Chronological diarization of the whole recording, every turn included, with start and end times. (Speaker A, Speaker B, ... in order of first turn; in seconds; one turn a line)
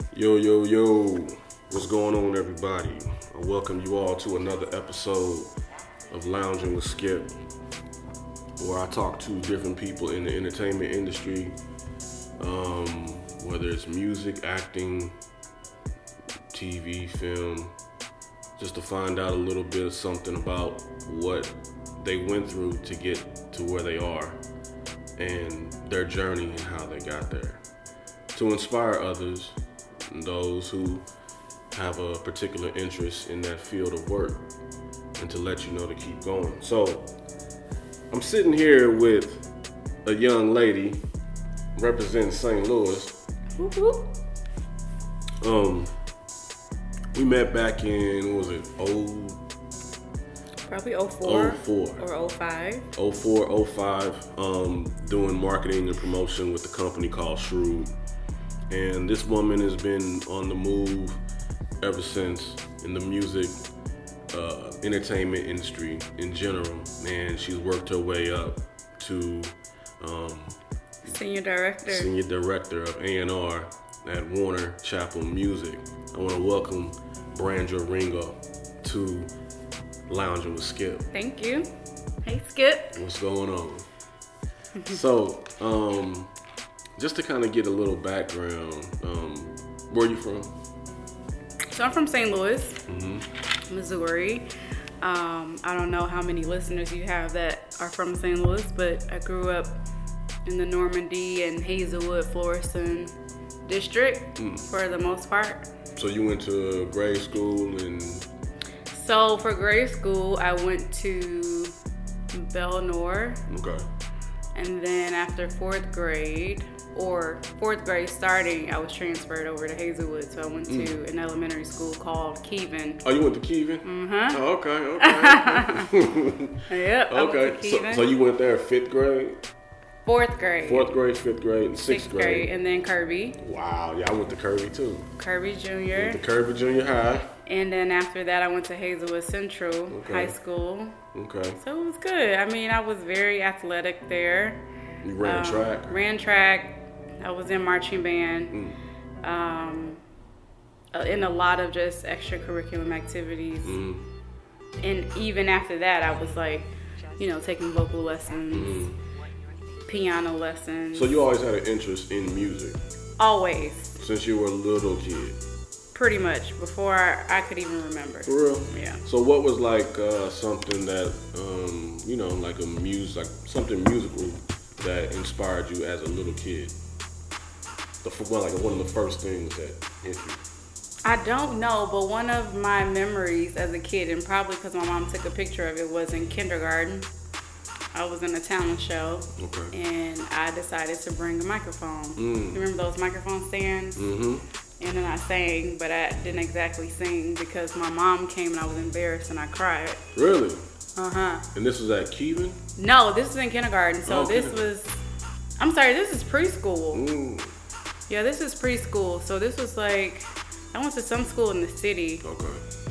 Speaker A: 0.1-5.5
Speaker A: 6.1-7.3
Speaker A: 8.6-11.5
Speaker A: 12.4-15.2
Speaker A: 16.5-17.7
Speaker A: 18.6-24.4
Speaker A: 25.2-27.6
Speaker A: 28.3-29.6
Speaker A: 30.1-31.1
Speaker A: 31.7-34.5
Speaker A: 35.2-37.1
Speaker A: 38.1-39.5
Speaker A: 40.0-41.0
Speaker A: 41.8-43.2
Speaker B: 43.5-44.1
Speaker A: 45.4-45.9
Speaker A: 47.1-49.4
Speaker B: 50.7-52.9
Speaker A: 51.2-52.0
Speaker A: 52.9-57.9
Speaker A: 58.7-61.2
Speaker A: 61.8-63.6
Speaker A: 64.3-70.6
Speaker B: 71.0-72.1
Speaker A: 71.9-79.3
Speaker A: 80.1-81.1
Speaker B: 81.1-81.7
Speaker B: 82.2-83.0
Speaker A: 82.9-83.9
Speaker A: 84.9-86.3
Speaker A: 87.0-90.5
Speaker B: 91.7-92.8
Speaker A: 92.9-93.3
Speaker B: 93.7-94.5
Speaker B: 95.0-99.8
Speaker B: 100.5-105.7
Speaker A: 104.4-104.6
Speaker A: 106.0-108.2
Speaker B: 108.9-111.7
Speaker B: 112.3-113.4
Speaker A: 113.5-113.9
Speaker B: 114.5-123.0
Speaker A: 120.7-121.0
Speaker A: 123.0-129.4
Speaker B: 123.8-124.4
Speaker B: 125.0-125.9
Speaker B: 126.7-128.1
Speaker B: 130.0-131.0
Speaker A: 130.7-132.5
Speaker B: 131.9-133.4
Speaker A: 133.4-135.1
Speaker B: 135.2-136.2
Speaker A: 135.9-137.3
Speaker B: 137.5-141.0
Speaker A: 139.9-140.3
Speaker A: 141.1-141.6
Speaker B: 141.6-144.6
Speaker A: 145.0-145.9
Speaker B: 145.2-148.6
Speaker A: 148.5-148.8
Speaker B: 149.2-150.0
Speaker B: 150.9-153.8
Speaker A: 153.7-154.0
Speaker B: 154.8-158.9
Speaker A: 158.5-159.0
Speaker B: 159.8-161.1
Speaker A: 160.9-162.8
Speaker B: 163.2-164.0
Speaker A: 164.0-165.4
Speaker B: 165.9-169.0
Speaker A: 168.2-176.8
Speaker A: 178.0-180.4
Speaker B: 181.0-187.1
Speaker B: 187.9-194.1
Speaker A: 189.4-189.8
Speaker A: 192.2-192.6
Speaker A: 194.0-194.4
Speaker B: 194.8-200.0
Speaker A: 200.2-200.7
Speaker B: 201.0-201.5
Speaker A: 201.5-202.6
Speaker B: 202.8-205.0
Speaker A: 204.1-204.7
Speaker B: 205.6-207.1
Speaker A: 206.9-207.5
Speaker B: 208.1-212.2
Speaker A: 212.2-212.6